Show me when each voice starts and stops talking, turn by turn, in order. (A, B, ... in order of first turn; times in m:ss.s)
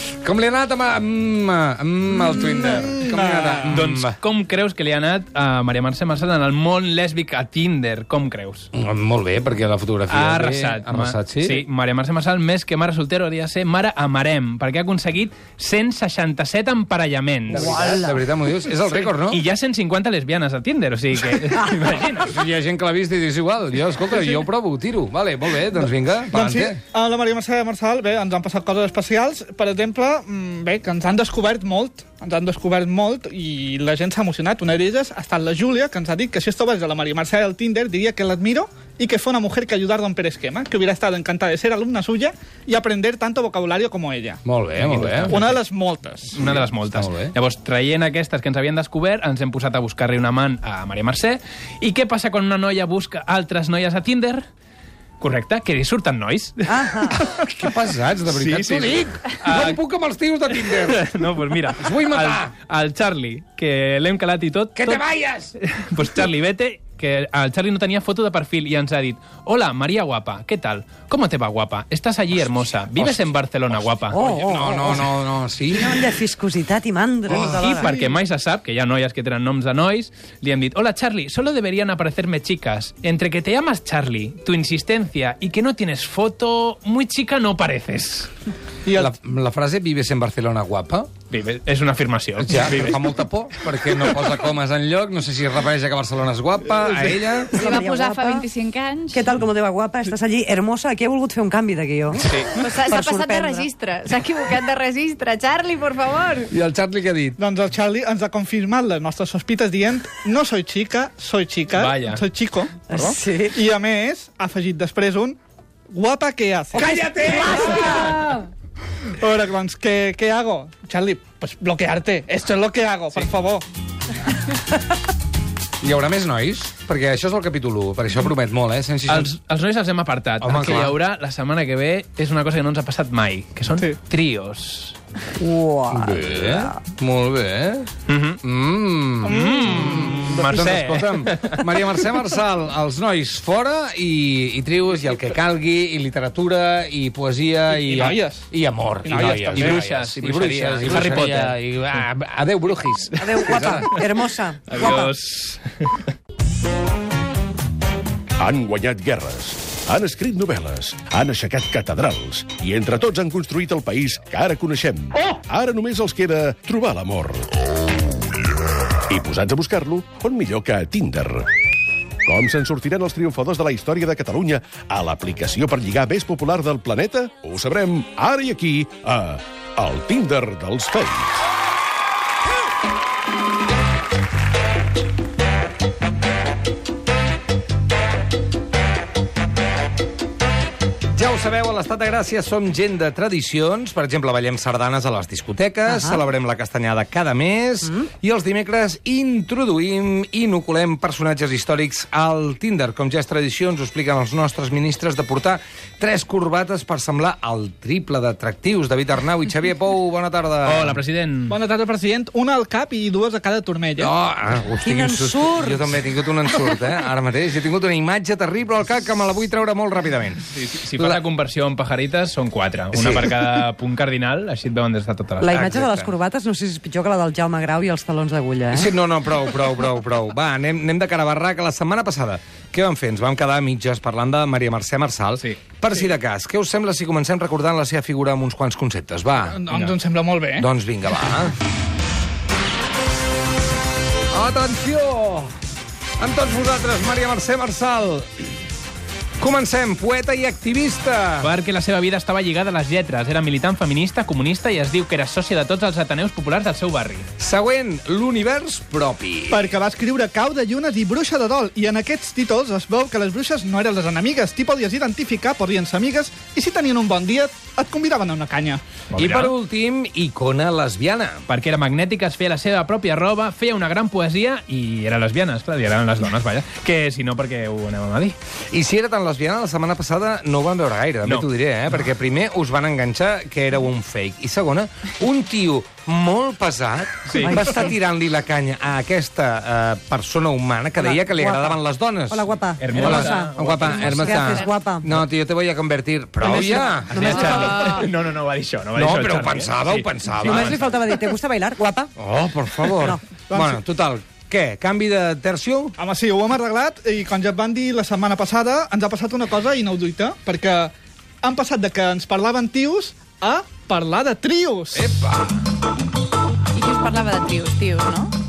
0:00.2-0:04.2 A
0:02.6-0:03.8 B
0:03.6-0:08.7 C
0:08.7-0:11.6 A
0:10.1-0:17.9 C
0:17.5-0:19.4 A
0:17.5-0:18.1 D
0:18.9-0:22.4 C
0:22.2-0:26.8 A
0:26.3-0:44.4 B
0:44.4-0:45.4 A
0:44.8-0:45.6 C
0:45.3-0:46.5 B
0:46.4-0:54.4 C
0:46.4-0:47.3 A
0:55.2-0:57.5 C
0:56.7-0:57.2 D
0:57.3-1:01.0 A
0:58.2-0:59.8 C
1:00.6-1:05.0 C
1:01.8-1:02.5 A
1:04.7-1:05.5 A
1:05.5-1:14.2 C
1:12.9-1:16.1 A
1:14.1-1:15.1 D
1:15.7-1:17.9 D
1:17.3-1:18.2 B
1:17.3-1:28.3 C
1:28.8-1:29.1 B
1:28.9-1:31.1 A
1:31.3-1:33.1 C
1:32.4-1:37.6 A
1:37.5-1:39.2 E
1:37.5-1:38.4 D
1:39.1-1:43.7 D
1:42.2-1:42.6 C
1:42.5-1:46.5 E
1:46.5-1:47.4 A
1:47.4-1:55.4 B
1:51.7-1:52.2 C
1:52.9-1:53.6 D
1:55.9-1:57.0 B
1:56.7-1:58.4 A
1:57.0-1:58.4 D
1:59.2-2:03.6 B
2:05.8-2:09.3 A
2:09.1-2:15.0 C
2:10.4-2:10.9 A
2:15.4-2:16.8 D
2:15.9-2:17.9 A
2:18.1-2:18.4 C
2:18.4-2:33.8 A
2:19.2-2:20.0 B
2:19.2-2:21.8 C
2:27.7-2:28.5 B
2:29.0-2:29.8 B
2:29.1-2:31.6 C
2:33.2-2:35.1 D
2:34.7-2:36.1 C
2:38.4-2:47.5 F
2:49.1-2:51.5 F
2:52.2-3:01.4 F
3:11.1-3:31.0 A
3:15.9-3:16.2 D
3:30.6-3:31.6 C
3:31.5-3:34.1 B
3:34.0-3:41.2 A
3:34.8-3:35.8 D
3:40.5-3:46.0 C
3:42.9-3:43.6 A
3:45.4-3:48.9 D
3:45.5-3:45.9 A
3:48.7-3:59.9 A
3:59.5-4:00.7 B
4:00.6-4:01.5 A
4:04.3-4:05.5 A
4:06.2-4:08.4 A
4:09.4-4:11.5 A
4:11.4-4:17.3 C
4:17.4-4:19.7 A
4:19.5-4:28.8 B
4:29.1-4:29.5 C
4:29.2-4:31.4 A
4:31.5-4:38.4 C
4:38.7-4:57.4 A
4:47.2-4:47.6 C
4:47.4-4:47.9 D
4:51.0-4:55.2 D
4:52.8-4:54.4 C
4:56.4-4:58.1 D
4:56.5-5:00.9 C
4:57.6-4:58.0 E
4:58.9-5:00.8 A
5:00.4-5:02.1 D
5:02.2-5:06.0 A
5:02.9-5:03.2 D
5:03.5-5:03.8 B
5:06.0-5:15.1 B
5:14.9-5:15.4 C
5:16.7-5:18.3 E